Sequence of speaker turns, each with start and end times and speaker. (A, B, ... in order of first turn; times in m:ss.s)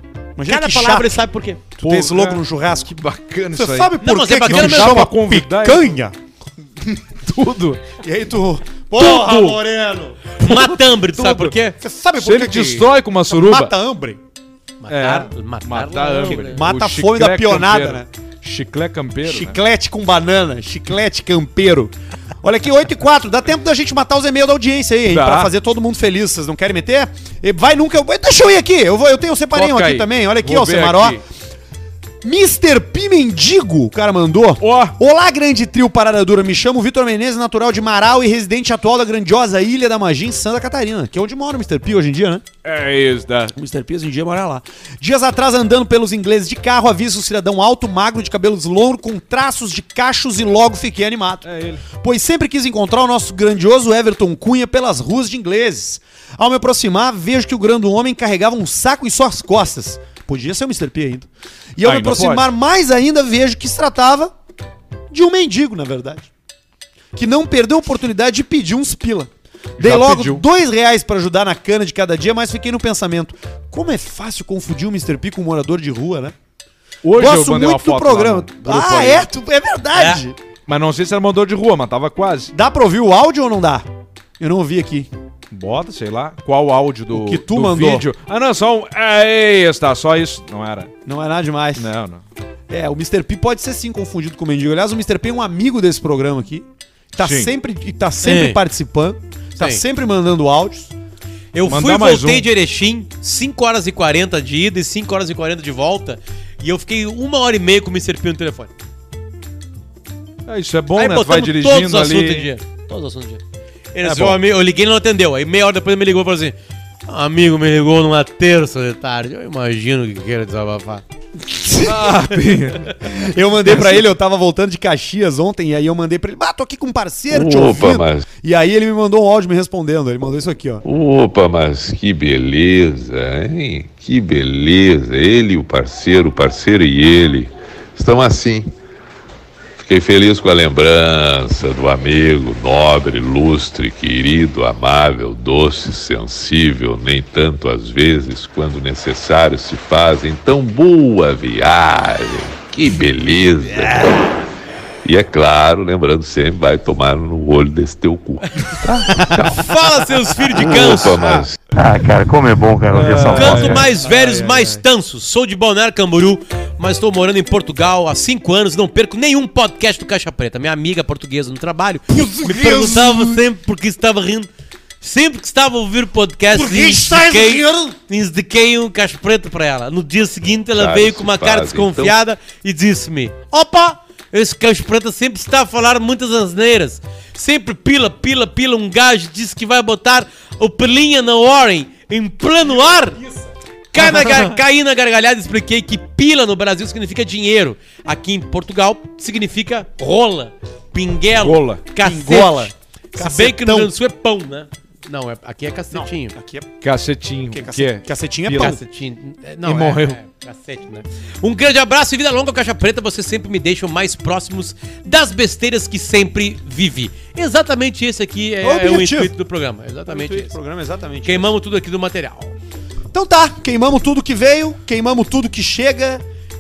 0:00.4-0:01.1 A
0:00.4-0:01.7 B
0:01.8-0:03.0 A
0:01.8-0:06.0 C
0:03.5-0:06.2 A
0:04.0-0:05.1 B
0:06.9-0:07.8 C
0:08.0-0:10.2 A
0:09.0-0:09.6 C
0:10.4-0:11.8 B
0:11.2-0:11.6 C
0:11.8-0:14.2 A
0:12.2-0:13.7 C
0:14.8-0:16.6 B
0:14.9-0:19.6 C
0:16.4-0:18.1 A
0:19.2-0:31.2 A
0:25.1-0:25.5 C
0:29.5-0:31.2 C
0:32.2-0:42.4 A
0:34.6-0:35.0 C
0:42.6-0:43.5 C
0:43.5-1:04.3 A
0:51.4-0:51.8 C
1:01.8-1:02.5 C
1:05.1-1:06.3 A
1:07.2-1:16.3 A
1:09.8-1:10.4 C
1:17.0-1:19.3 C
1:17.2-1:20.4 A
1:20.0-1:20.2 B
1:20.7-1:22.5 C
1:22.5-1:23.9 A
1:24.4-1:25.1 A
1:25.5-1:30.9 C
1:27.1-1:28.1 A
1:31.1-1:31.9 A
1:31.8-1:32.2 C
1:32.7-1:40.9 A
1:37.2-1:37.5 C
1:38.2-1:38.6 B
1:39.6-1:39.8 B
1:41.5-1:48.7 B
1:41.6-1:42.5 C
1:50.5-1:52.5 C
1:51.0-1:53.4 B
1:53.9-1:56.6 B
1:54.0-1:54.4 C
1:57.1-2:01.0 B
2:01.8-2:02.9 C
2:03.0-2:10.8 A
2:07.3-2:08.2 D
2:10.8-2:18.7 D
2:19.8-2:34.3 D
2:33.9-2:34.1 C
2:35.0-2:38.5 D
2:39.0-2:39.7 D
2:39.1-2:41.3 B
2:40.5-2:41.6 D
2:40.6-2:41.4 C
2:41.7-2:43.9 E
2:42.9-2:43.9 C
2:43.3-2:54.5 B
2:44.0-2:44.8 A
2:52.1-2:53.4 A
2:55.0-3:13.2 B
2:56.5-2:58.0 A
3:00.7-3:02.2 D
3:13.9-3:26.4 B
3:21.4-3:21.8 C
3:22.0-3:23.9 A
3:25.9-3:26.7 A
3:26.8-3:28.8 C
3:27.5-3:28.8 A
3:28.6-3:40.6 B
3:29.6-3:30.2 C
3:38.6-3:39.3 A
3:40.1-3:41.5 A
3:41.2-3:42.5 B
3:43.1-3:46.2 A